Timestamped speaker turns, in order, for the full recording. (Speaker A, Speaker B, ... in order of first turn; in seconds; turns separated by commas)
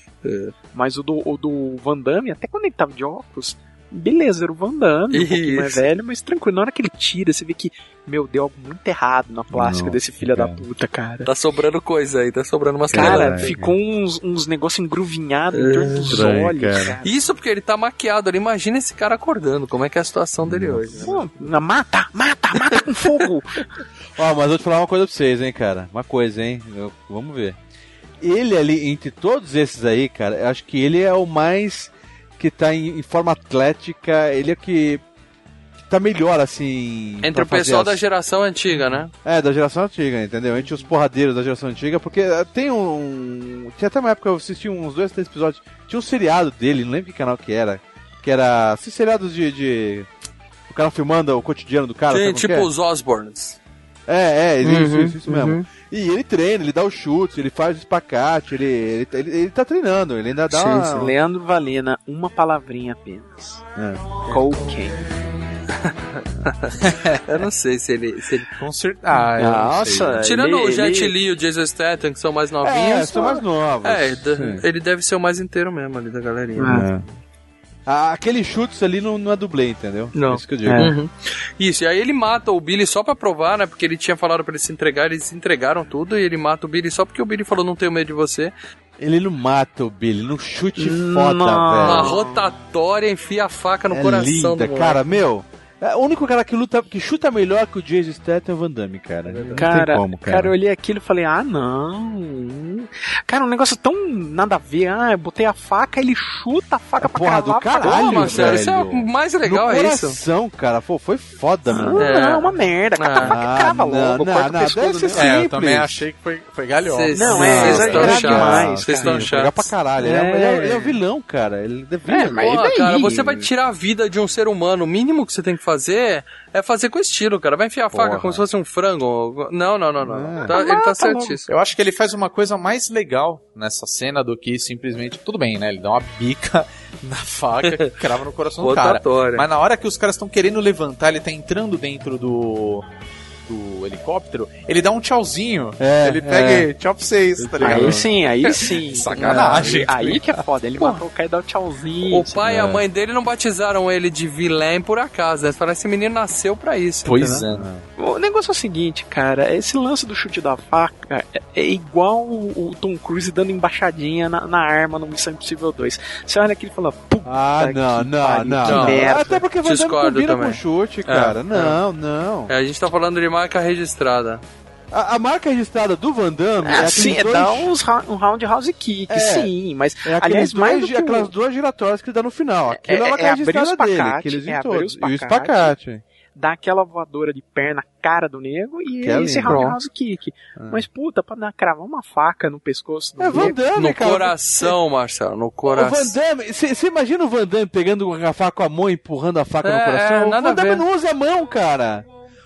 Speaker A: 0.2-0.5, Speaker B: 0.7-11.3, Speaker A: 5.1-5.8, Speaker C: 9.5-10.6, Speaker A: 11.2-13.6, Speaker C: 12.9-13.7, Speaker B: 12.9-17.2, Speaker A: 15.5-16.3, Speaker C: 16.1-16.9, Speaker A: 17.0-21.2, Speaker C: 20.4-20.9, Speaker B: 20.9-23.6, Speaker C: 24.2-27.6, Speaker C: 28.2-35.0, Speaker C: 35.9-38.0, Speaker A: 37.2-39.1, Speaker C: 39.1-50.1, Speaker C: 50.7-52.7, Speaker A: 52.1-53.6, Speaker C: 54.1-61.1, Speaker A: 54.6-55.6, Speaker B: 60.6-63.6, Speaker C: 63.8-64.2, Speaker B: 64.3-65.0, Speaker A: 65.8-68.5, Speaker D: 68.6-70.3, Speaker B: 69.3-71.1, Speaker A: 70.2-76.9, Speaker C: 72.6-74.6, Speaker B: 76.6-76.9, Speaker C: 76.6-77.0, Speaker C: 77.8-80.9, Speaker A: 80.1-88.5, Speaker B: 80.6-81.0, Speaker C: 89.0-92.2, Speaker B: 90.8-92.4, Speaker A: 91.8-95.0, Speaker C: 93.9-100.5, Speaker A: 99.3-99.7, Speaker B: 99.5-108.6, Speaker C: 107.0-112.1, Speaker A: 107.8-110.2, Speaker B: 111.7-115.3, Speaker A: 112.0-113.4, Speaker C: 113.2-116.0, Speaker D: 115.1-118.2, Speaker A: 116.9-119.7, Speaker B: 117.1-119.3, Speaker C: 117.2-122.6, Speaker B: 120.0-121.0, Speaker B: 122.1-123.5, Speaker A: 122.4-131.5, Speaker D: 128.0-128.4, Speaker C: 130.0-130.6, Speaker B: 130.5-131.4, Speaker D: 131.5-142.8, Speaker A: 138.6-139.4, Speaker D: 143.4-150.4, Speaker C: 145.8-146.7, Speaker A: 147.4-147.9, Speaker B: 147.6-152.4, Speaker C: 147.6-148.1, Speaker A: 149.1-149.8, Speaker A: 150.8-151.0, Speaker A: 152.1-157.4, Speaker C: 152.4-152.8, Speaker D: 157.1-157.7, Speaker C: 157.5-157.8, Speaker B: 158.0-169.4, Speaker C: 167.3-172.5, Speaker A: 168.6-171.8, Speaker A: 172.5-174.4, Speaker C: 174.9-177.7, Speaker B: 176.6-181.3, Speaker C: 179.1-179.5, Speaker C: 180.1-186.0, Speaker B: 182.7-185.7, Speaker B: 186.3-193.6, Speaker C: 189.0-189.6, Speaker A: 189.4-189.8, Speaker C: 190.6-190.8, Speaker C: 193.2-194.7, Speaker A: 193.4-196.2, Speaker C: 195.6-202.1, Speaker A: 199.6-200.8